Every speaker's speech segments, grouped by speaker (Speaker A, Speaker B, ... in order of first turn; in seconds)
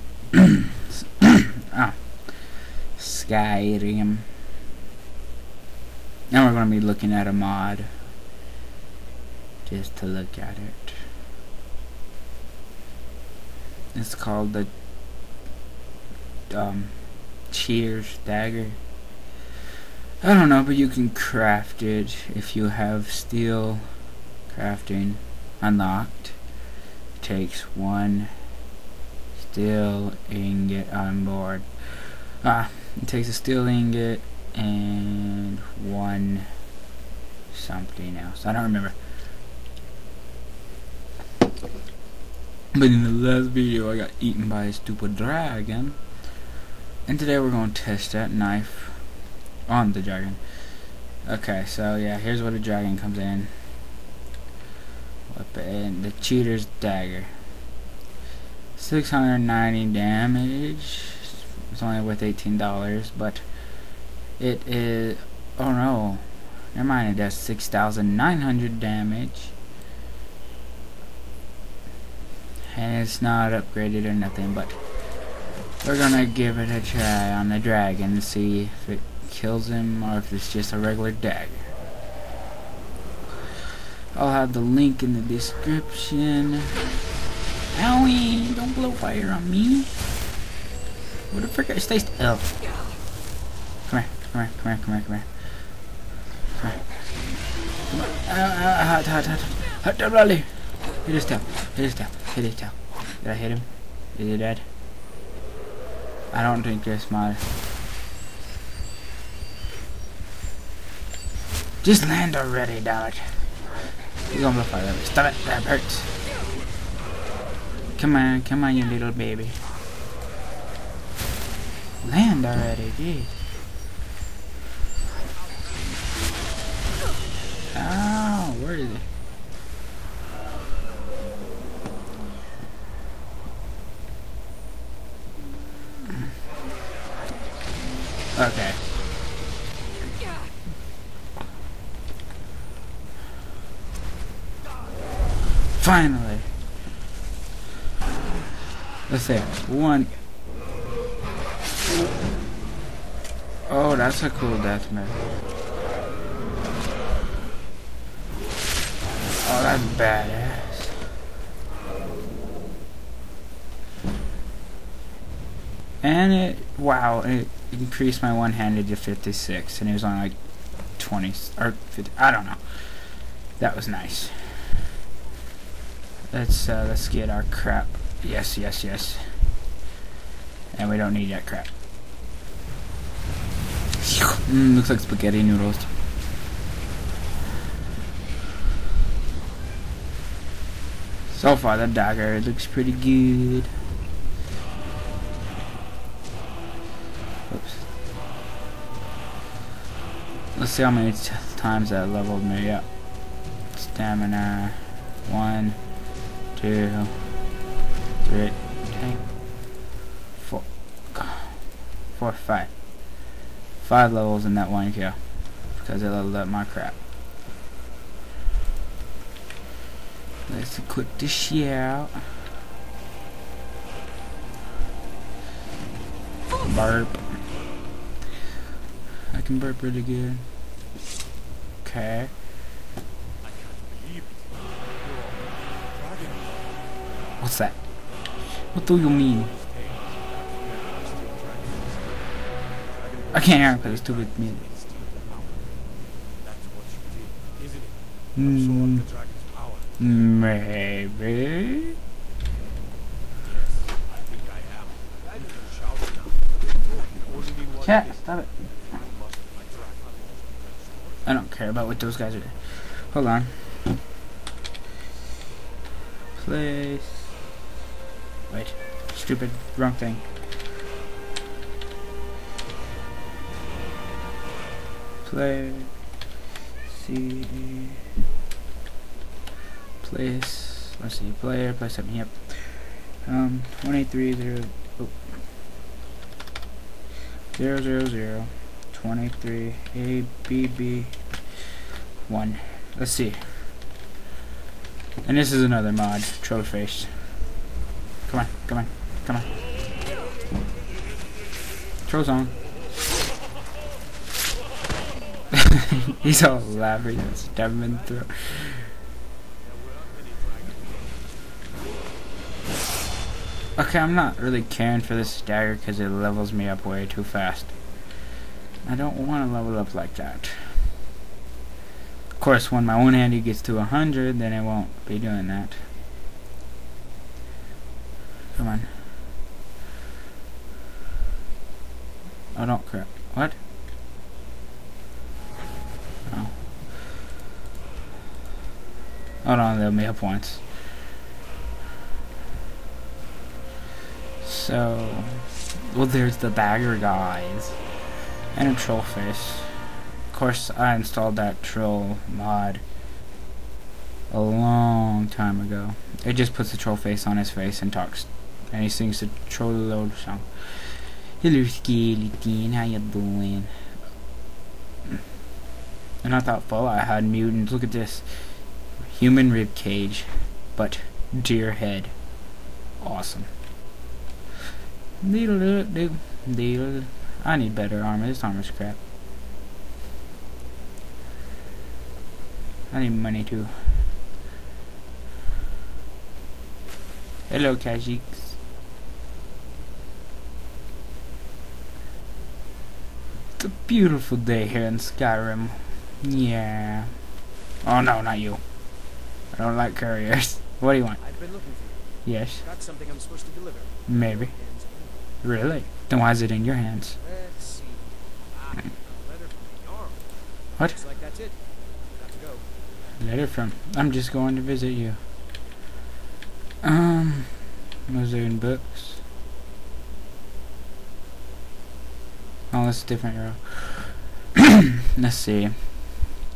Speaker A: 0.9-4.4, 6.3-7.9, 9.7-11.0, 13.9-14.7, 16.5-18.8, 20.2-26.5, 27.2-28.4, 29.4-36.6, 37.5-38.9, 42.7-46.2, 47.0-53.7, 55.3-57.4, 58.8-69.5, 72.7-74.8, 75.8-81.7, 84.1-86.8, 87.7-89.9, 91.3-92.8, 93.9-95.7, 96.6-97.1, 97.9-104.7, 106.3-107.4, 111.8-116.2, 118.0-119.6, 122.0-123.4, 127.7-129.1, 138.3-138.8, 145.8-146.6, 149.1-150.1, 153.6-155.3, 159.4-160.9, 166.0-174.8, 176.3-179.4, 180.7-181.7, 184.0-185.9, 191.3-193.7, 197.5-197.8, 200.5-206.0, 206.5-207.4, 208.2-209.4, 210.3-213.3, 213.8-217.0, 220.5-222.3, 226.6-227.4, 229.3-230.5, 231.8-232.3, 237.4-239.5, 243.3-244.6, 248.3-249.1, 250.0-252.0, 257.8-258.5, 261.2-263.6, 266.4-267.4, 268.5-270.2, 275.2-276.0, 276.9-278.0, 280.0-285.4, 287.5-291.2, 292.2-293.7, 295.2-297.4, 298.3-299.5, 302.1-302.6, 306.1-308.9, 313.8-318.0, 318.8-320.9, 322.4-325.8, 328.5-329.0, 332.5-333.6, 336.3-336.6, 339.4-340.6, 344.4-347.9, 348.5-352.8, 354.3-363.7, 366.2-372.4, 373.0-373.5, 375.2-379.0, 382.9-384.1, 387.5-388.5, 393.6-401.3, 402.2-402.6, 404.1-404.5, 405.4-407.2, 413.2-415.2, 416.8-419.2, 422.7-426.3
Speaker B: 125.1-126.8, 227.4-227.7, 233.4-237.3, 238.9-250.0, 253.4-261.4, 309.6-311.7, 401.2-405.2, 407.2-412.7